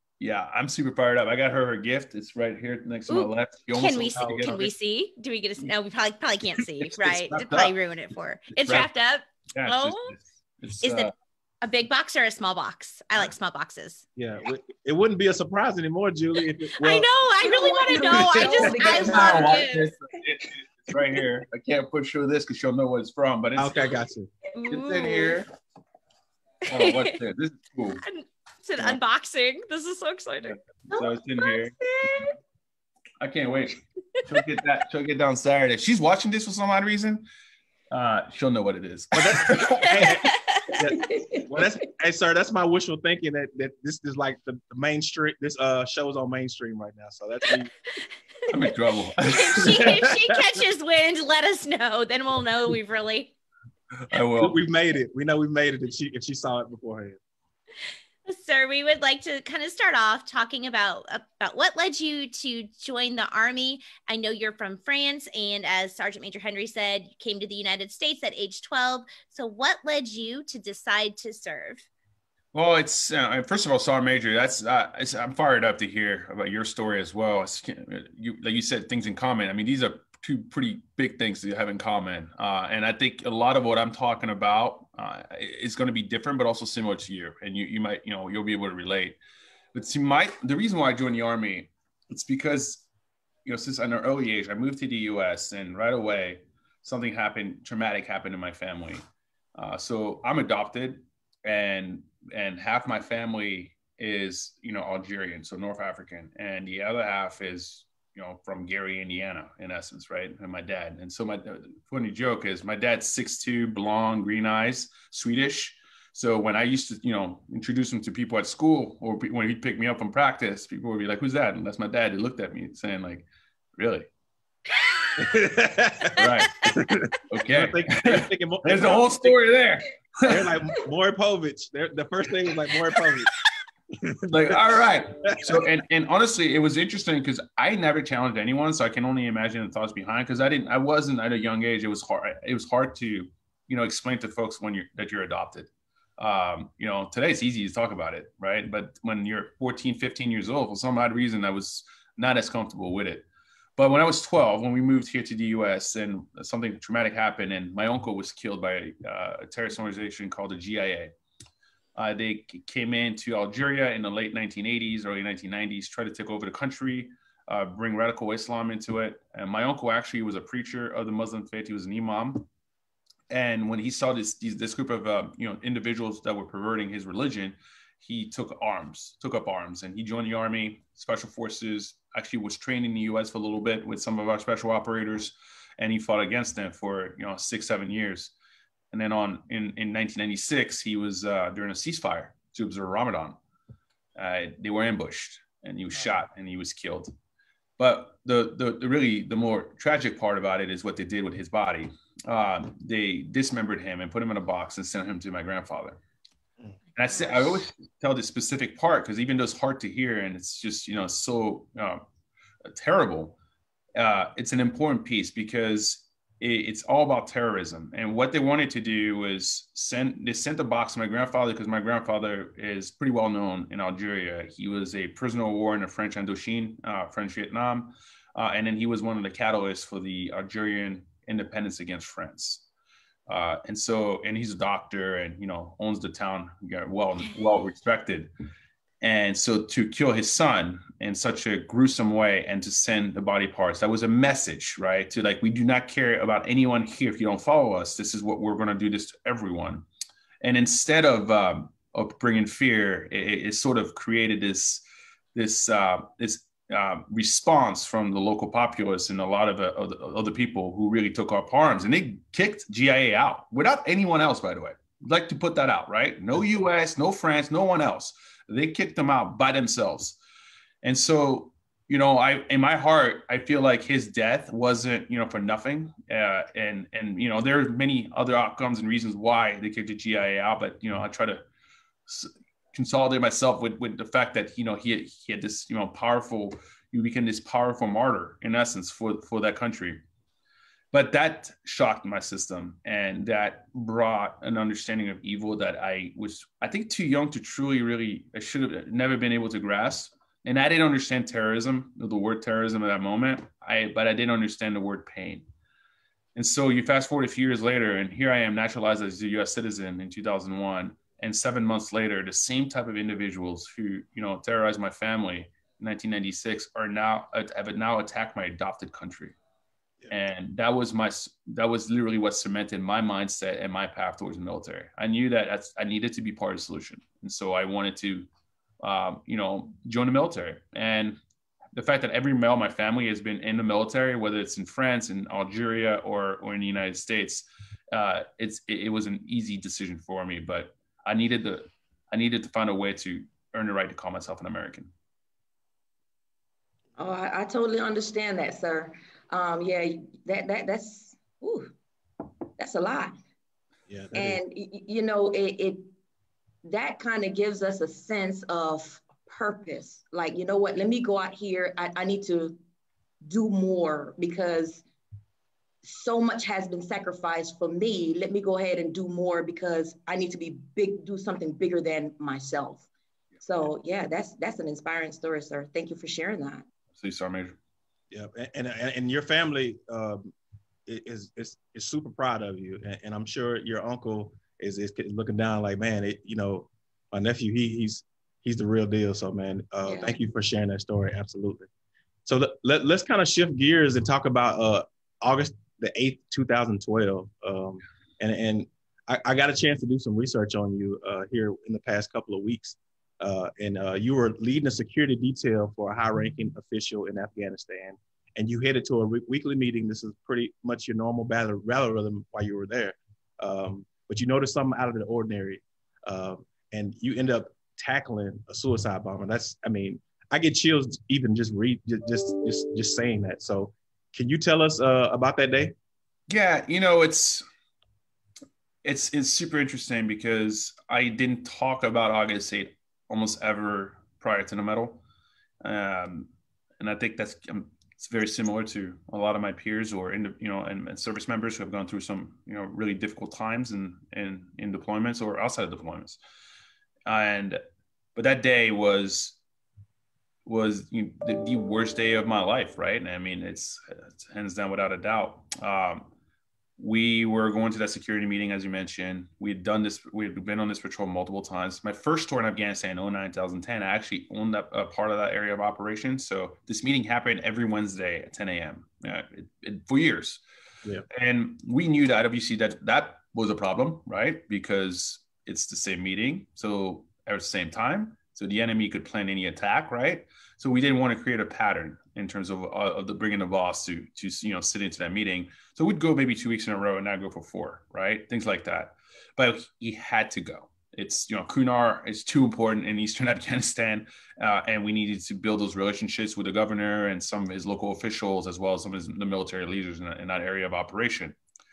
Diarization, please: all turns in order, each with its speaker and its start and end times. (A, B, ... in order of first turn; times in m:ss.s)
0:00.2-0:04.7 A
0:03.1-0:10.1 B
0:04.2-0:04.5 C
0:06.8-0:07.7 A
0:08.5-0:08.9 A
0:09.5-0:11.1 A
0:10.8-0:14.0 B
0:14.2-0:17.1 C
0:16.8-0:19.9 B
0:17.4-0:19.8 D
0:18.1-0:18.6 C
0:18.7-0:23.8 A
0:23.6-0:24.3 C
0:24.5-0:25.4 B
0:24.7-0:25.5 A
0:26.6-0:28.0 A
0:26.7-0:27.2 B
0:28.0-0:30.6 B
0:30.9-0:31.7 A
0:31.4-0:32.2 B
0:33.2-0:37.2 A
0:37.9-0:40.1 A
0:39.1-0:47.7 C
0:39.8-0:40.2 B
0:40.9-0:41.5 D
0:48.5-0:49.9 A
0:49.2-0:53.3 B
0:49.8-0:50.2 C
0:54.0-0:54.6 A
0:54.4-0:57.2 C
0:58.2-1:11.8 B
1:12.5-1:29.2 A
1:29.7-1:32.8 A
1:33.4-1:39.0 A
1:39.6-2:04.1 A
2:04.8-2:05.1 B
2:05.2-2:09.4 C
2:06.1-2:10.5 A
2:10.2-2:13.3 C
2:14.2-2:33.2 A
2:15.3-2:15.5 C
2:33.8-2:41.1 A
2:42.0-2:52.5 A
2:53.3-3:08.3 A
3:08.9-3:13.4 A
3:14.2-3:17.1 A
3:17.8-3:26.0 A
3:26.9-3:32.0 A
3:32.6-3:33.4 A
3:34.0-3:52.6 A
3:53.3-3:58.3 A
3:59.0-4:09.8 A
4:10.4-4:14.8 A
4:15.3-4:30.2 A
4:30.8-4:41.4 A
4:42.1-4:50.0 A
4:50.9-5:05.4 A
5:06.4-5:19.4 A
5:20.1-5:28.3 A
5:28.8-5:31.2 A
5:31.7-5:44.9 A
5:47.0-5:51.7 D
5:52.6-5:53.2 D
5:53.9-5:54.4 C
5:54.1-5:55.9 D
5:56.6-6:02.6 D
6:03.2-6:04.8 D
6:05.8-6:12.9 D
6:13.4-6:16.6 D
6:16.9-6:17.6 A
6:18.1-6:20.3 C
6:20.9-6:31.7 C
6:29.8-6:30.1 D
6:32.2-7:05.7 C
7:06.3-7:07.4 A
7:08.8-7:15.0 A
7:15.6-7:26.2 A
7:27.0-7:27.6 A
7:28.2-7:29.4 A
7:30.4-7:36.1 A
7:36.8-7:50.4 A
7:51.1-8:21.4 A